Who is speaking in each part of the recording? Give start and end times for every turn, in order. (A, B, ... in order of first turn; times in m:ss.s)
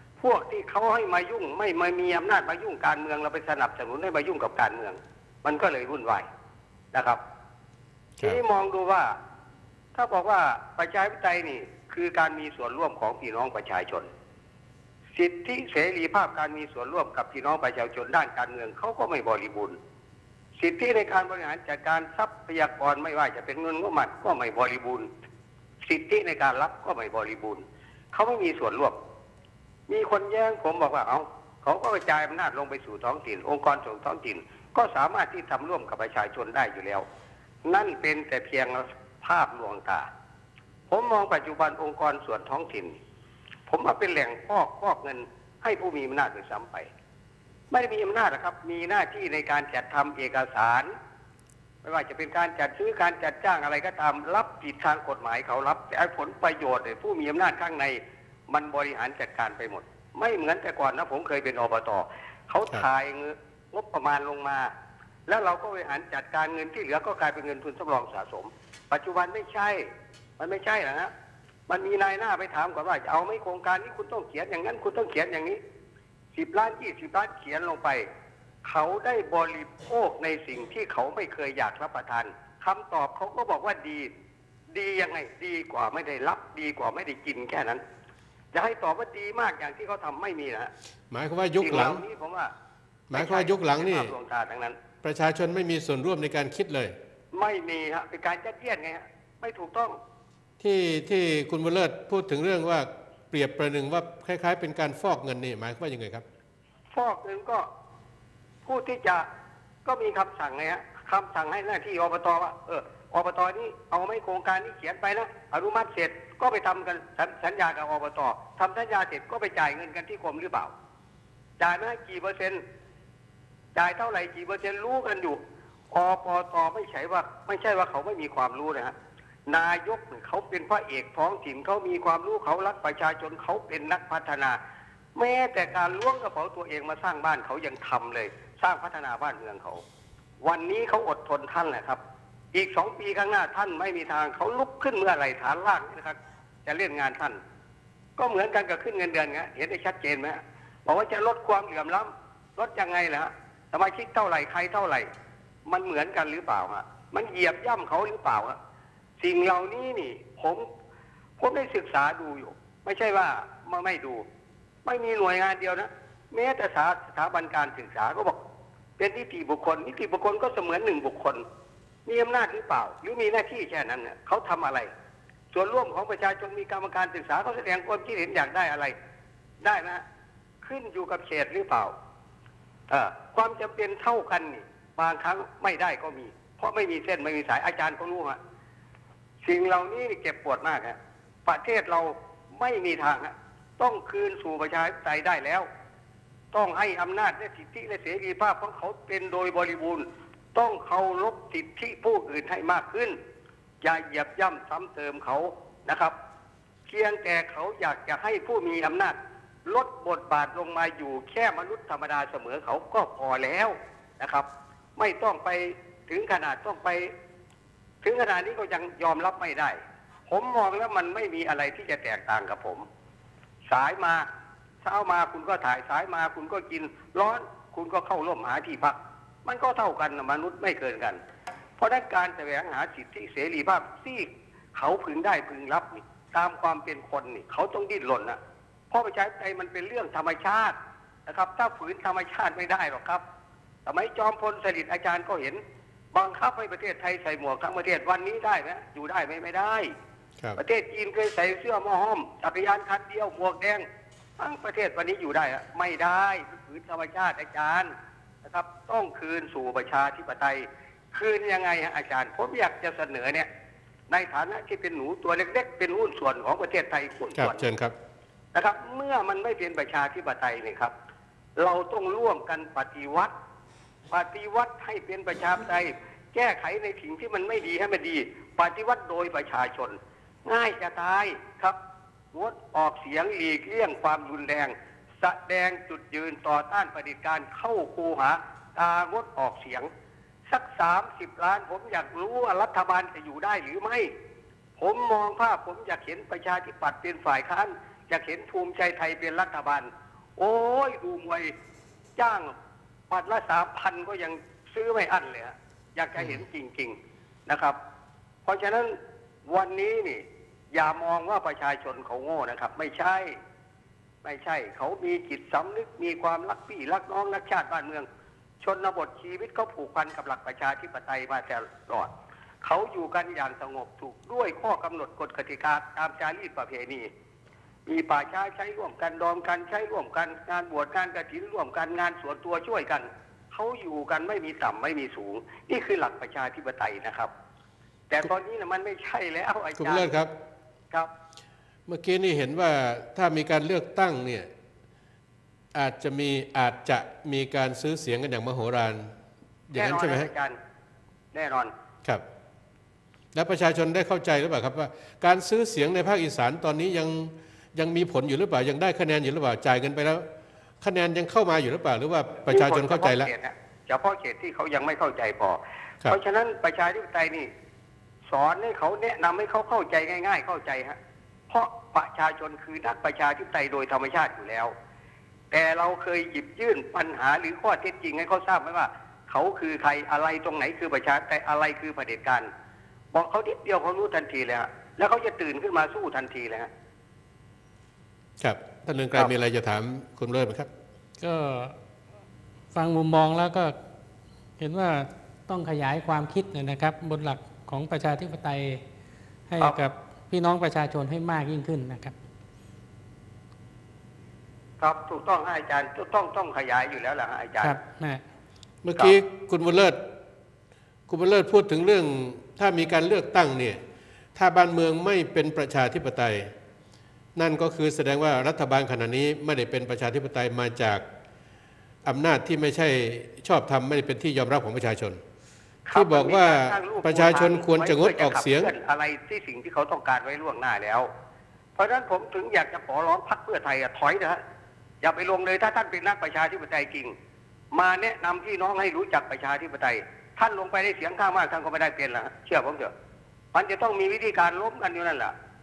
0:00.2-0:06.3 A
0:06.9-0:07.2 A
0:08.2-0:09.1 A
0:10.0-0:14.1 A
0:15.2-0:19.8 A
0:20.6-0:25.1 A
0:25.8-0:29.0 A
0:29.9-0:37.0 A
0:37.6-0:40.1 A
0:40.9-0:43.0 A
0:43.7-0:46.9 A
0:47.7-0:50.9 A
0:51.8-1:04.7 A
1:05.3-1:09.9 A
1:10.4-1:11.1 A
1:11.7-1:15.6 A
1:16.3-1:18.0 A
1:18.6-1:24.1 A
1:24.7-1:27.8 A
1:28.5-1:30.7 A
1:31.1-1:32.0 B
1:31.6-1:32.5 A
1:33.1-1:34.1 B
1:33.1-1:34.8 A
1:35.0-1:37.0 B
1:37.3-1:40.0 A
1:40.6-1:46.2 B
1:46.9-1:47.7 A
1:48.6-1:49.3 A
1:49.8-2:00.7 A
2:01.6-2:02.6 A
2:03.8-2:05.4 A
2:05.9-2:08.9 A
2:09.5-2:14.6 A
2:15.2-2:19.8 A
2:20.4-2:22.0 A
2:22.5-2:27.4 A
2:28.2-2:35.1 A
2:35.7-2:38.6 A
2:39.2-2:40.7 A
2:41.4-2:44.2 A
2:44.9-2:48.4 A
2:49.0-2:51.4 A
2:52.1-2:54.9 A
2:55.5-2:59.0 A
2:59.6-3:00.0 A
3:00.6-3:01.9 A
3:02.9-3:08.4 A
3:09.4-3:15.7 A
3:16.5-3:23.2 A
3:23.8-3:26.2 A
3:26.9-3:37.1 A
3:38.0-3:42.8 A
3:43.7-3:44.2 A
3:44.8-3:51.2 A
3:51.8-3:58.4 A
3:58.9-4:00.8 A
4:01.3-4:03.2 A
4:03.9-4:05.6 A
4:06.1-4:09.9 A
4:10.6-4:13.8 A
4:14.4-4:17.9 A
4:18.4-4:23.5 A
4:24.1-4:27.6 A
4:27.4-4:28.0 B
4:28.5-4:30.9 A
4:31.6-4:33.3 A
4:34.1-4:41.8 A
4:42.3-4:49.9 A
4:50.5-4:54.1 A
4:54.8-5:01.5 A
5:02.2-5:02.5 A
5:03.1-5:07.0 A
5:06.2-5:06.4 B
5:07.5-5:07.8 A
5:08.5-5:13.4 A
5:14.2-5:18.1 A
5:18.6-5:22.1 A
5:22.6-5:27.1 A
5:27.9-5:37.3 A
5:38.1-5:40.1 A
5:39.8-5:40.3 B
5:41.9-5:44.5 B
5:45.7-5:49.2 B
5:49.7-5:50.3 B
5:49.8-5:50.6 A
5:51.3-5:51.7 A
5:53.3-6:00.3 B
6:00.8-6:03.3 B
6:02.5-6:07.5 A
6:08.3-6:11.0 A
6:11.5-6:14.7 A
6:15.5-6:22.5 A
6:23.1-6:26.7 A
6:28.4-6:30.7 B
6:31.2-6:31.8 C
6:32.7-6:33.8 C
6:34.6-6:38.8 C
6:39.5-6:42.2 C
6:44.8-6:47.8 A
6:47.6-6:48.2 C
6:48.8-6:50.1 B
6:51.1-6:53.8 B
6:54.4-6:56.5 B
6:57.4-7:01.0 B
7:02.0-7:05.2 B
7:05.9-7:11.1 A
7:05.9-7:08.7 B
7:11.8-7:14.4 A
7:15.0-7:17.1 A
7:17.7-7:22.9 A
7:23.5-7:25.3 A